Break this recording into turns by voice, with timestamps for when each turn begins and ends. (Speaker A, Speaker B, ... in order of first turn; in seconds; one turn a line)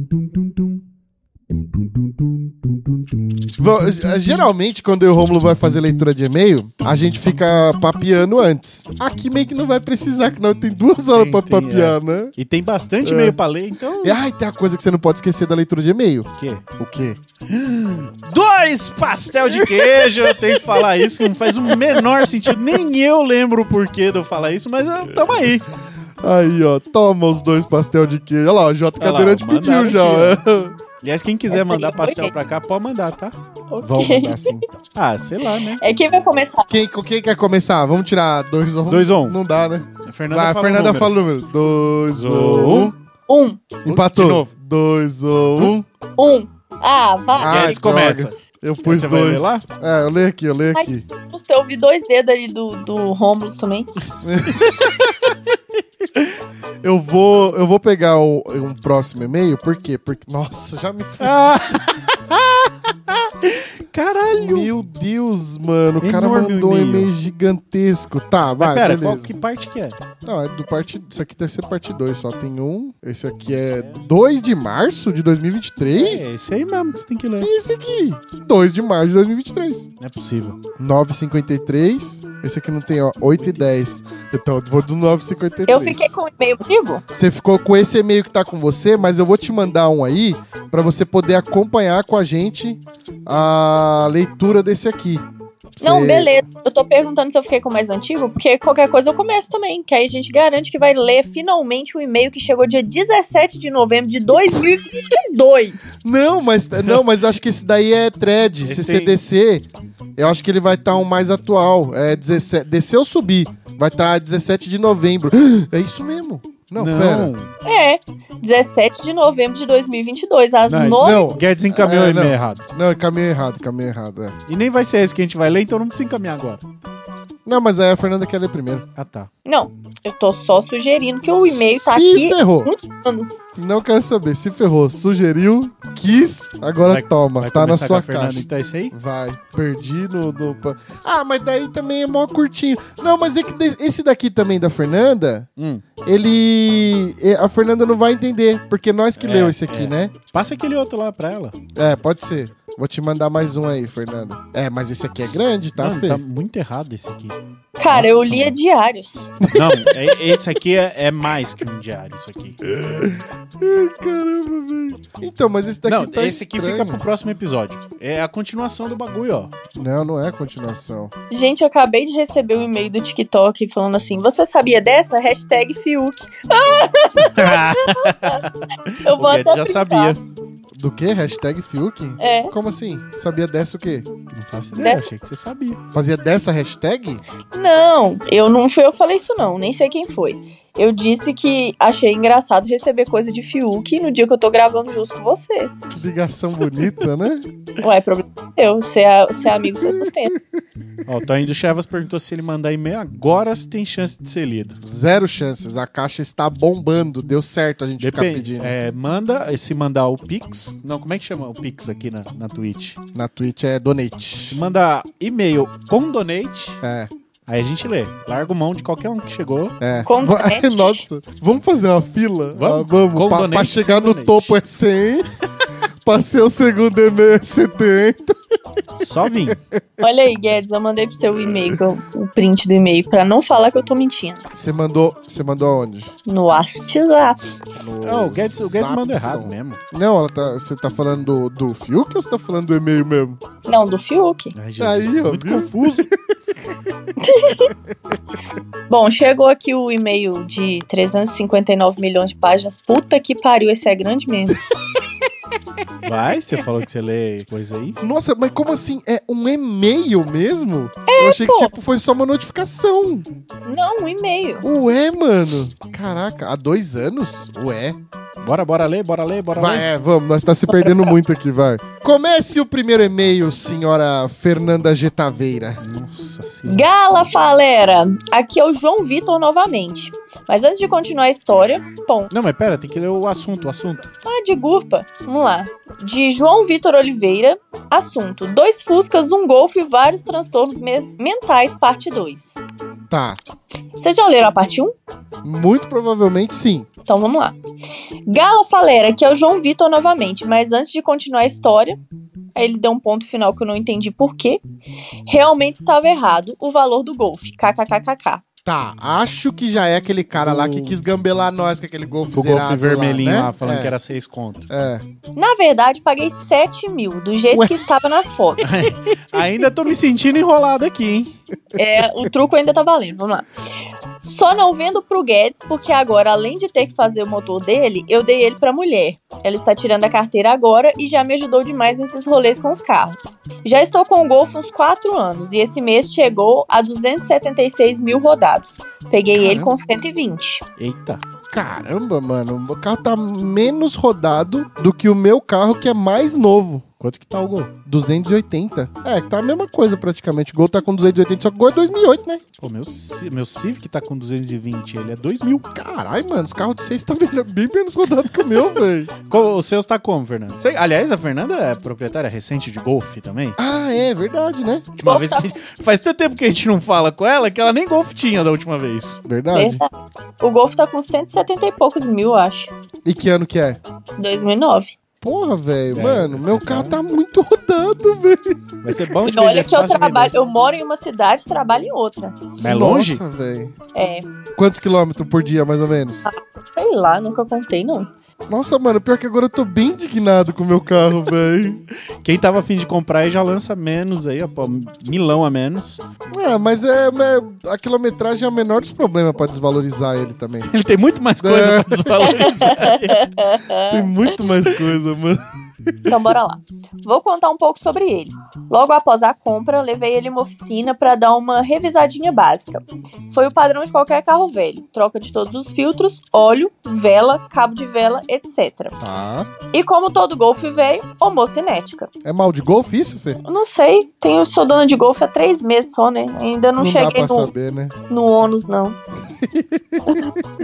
Speaker A: 3.6-12.3
Speaker B: 11.1-14.2
Speaker A: 13.0-13.4
Speaker A: 14.0-17.2
Speaker B: 16.4-16.6
Speaker B: 17.5-25.7
Speaker A: 19.5-22.2
Speaker A: 26.2-30.8
Speaker B: 29.0-30.4
Speaker B: 31.0-33.4
Speaker C: 31.5-32.3
Speaker C: 33.7-34.5
Speaker A: 33.8-34.6
Speaker B: 35.0-35.8
Speaker C: 35.8-36.7
Speaker A: 36.7-43.0
Speaker B: 38.9-39.4
Speaker B: 40.1-41.1
Speaker B: 42.1-42.9
Speaker C: 43.3-43.7
Speaker B: 43.8-44.5
Speaker A: 43.9-45.9
Speaker C: 46.2-47.8
Speaker A: 47.4-51.0
Speaker B: 47.4-49.6
Speaker C: 50.7-53.9
Speaker A: 54.2-54.7
Speaker A: 56.8-61.6
Speaker B: 61.2-64.7
Speaker A: 64.3-69.3
Speaker B: 66.0-67.1
Speaker B: 68.6-70.0
Speaker A: 70.2-76.4
Speaker B: 73.6-74.1
Speaker B: 75.9-77.5
Speaker A: 77.4-79.9
Speaker B: 80.0-80.6
Speaker A: 80.8-86.1
Speaker B: 83.4-83.7
Speaker C: 85.7-87.0
Speaker A: 87.1-95.2
Speaker A: 95.8-96.3
Speaker C: 95.8-106.0
Speaker A: 106.0-117.3
Speaker B: 108.6-109.2
Speaker B: 116.8-117.5
Speaker C: 117.6-121.3
Speaker B: 120.7-122.6
Speaker A: 120.9-124.4
Speaker B: 124.5-126.6
Speaker A: 127.5-128.8
Speaker B: 129.0-129.3
Speaker C: 129.4-133.5
Speaker A: 131.4-132.7
Speaker A: 133.6-145.5
Speaker B: 136.9-138.9
Speaker B: 145.6-145.8
Speaker A: 146.0-150.1
Speaker B: 149.2-151.6
Speaker A: 151.8-156.2
Speaker B: 155.8-157.4
Speaker C: 157.8-159.3
Speaker B: 157.9-158.6
Speaker A: 159.4-160.4
Speaker B: 159.5-162.6
Speaker A: 162.6-167.0
Speaker B: 165.9-169.5
Speaker A: 169.8-171.1
Speaker C: 171.3-178.4
Speaker B: 177.2-180.2
Speaker C: 179.0-180.2
Speaker A: 180.8-184.1
Speaker C: 182.2-182.5
Speaker B: 184.3-185.8
Speaker C: 184.8-185.1
Speaker A: 185.9-187.2
Speaker C: 187.5-195.7
Speaker A: 195.9-197.4
Speaker C: 197.8-200.3
Speaker B: 201.1-204.8
Speaker A: 204.8-208.7
Speaker B: 208.0-213.0
Speaker A: 213.1-214.6
Speaker B: 214.4-216.8
Speaker A: 216.8-217.1
Speaker B: 217.5-219.8
Speaker A: 219.8-225.3
Speaker C: 220.1-221.1
Speaker B: 222.6-224.6
Speaker A: 226.1-228.4
Speaker B: 229.0-229.6
Speaker A: 229.5-229.8
Speaker C: 230.0-234.4
Speaker A: 231.3-231.8
Speaker A: 234.5-236.1
Speaker C: 236.3-237.4
Speaker A: 237.8-243.4
Speaker B: 238.1-239.8
Speaker C: 243.7-244.5
Speaker B: 244.6-246.1
Speaker A: 244.8-246.1
Speaker C: 247.2-247.7
Speaker C: 248.9-254.6
Speaker B: 256.0-258.0
Speaker A: 258.0-263.3
Speaker C: 261.1-261.7
Speaker C: 263.6-264.6
Speaker A: 264.6-268.0
Speaker B: 268.4-269.9
Speaker A: 269.6-275.8
Speaker C: 270.7-271.1
Speaker B: 275.8-276.9
Speaker C: 276.7-282.3
Speaker B: 282.3-284.1
Speaker C: 284.2-292.6
Speaker A: 293.1-293.4
Speaker C: 294.0-294.9
Speaker A: 295.4-296.9
Speaker C: 297.1-297.6
Speaker C: 298.3-302.0
Speaker C: 302.6-304.6
Speaker C: 305.3-308.4
Speaker A: 308.6-313.9
Speaker B: 310.4-311.0
Speaker B: 312.3-314.7
Speaker A: 314.7-315.0
Speaker C: 315.4-318.8
Speaker A: 317.5-317.9
Speaker B: 318.6-321.3
Speaker C: 321.8-323.5
Speaker C: 324.2-340.6
Speaker A: 339.3-339.7
Speaker B: 340.8-341.2
Speaker A: 341.5-346.8
Speaker B: 347.0-347.7
Speaker A: 347.9-352.4
Speaker B: 352.6-355.7
Speaker A: 355.7-359.1
Speaker B: 359.3-363.6
Speaker A: 363.6-364.9
Speaker B: 365.0-369.2
Speaker C: 365.1-365.5
Speaker A: 369.2-369.8
Speaker C: 369.5-369.9
Speaker C: 370.4-372.7
Speaker A: 373.1-373.8
Speaker C: 374.2-374.9
Speaker A: 375.2-379.0
Speaker B: 375.9-377.0
Speaker B: 378.8-380.3
Speaker C: 379.2-382.5
Speaker B: 382.6-383.2
Speaker A: 382.6-383.8
Speaker C: 383.9-384.2
Speaker A: 384.6-386.3
Speaker C: 386.3-388.1
Speaker A: 388.5-391.8
Speaker B: 392.2-396.0
Speaker A: 396.3-400.7
Speaker B: 400.7-403.3
Speaker A: 401.4-402.5
Speaker C: 402.2-404.3
Speaker A: 403.9-405.4
Speaker C: 406.1-419.0
Speaker A: 419.0-419.5
Speaker C: 419.7-422.1
Speaker A: 422.2-423.4
Speaker C: 423.4-427.5
Speaker A: 426.8-427.9
Speaker C: 428.1-429.0
Speaker C: 430.1-430.4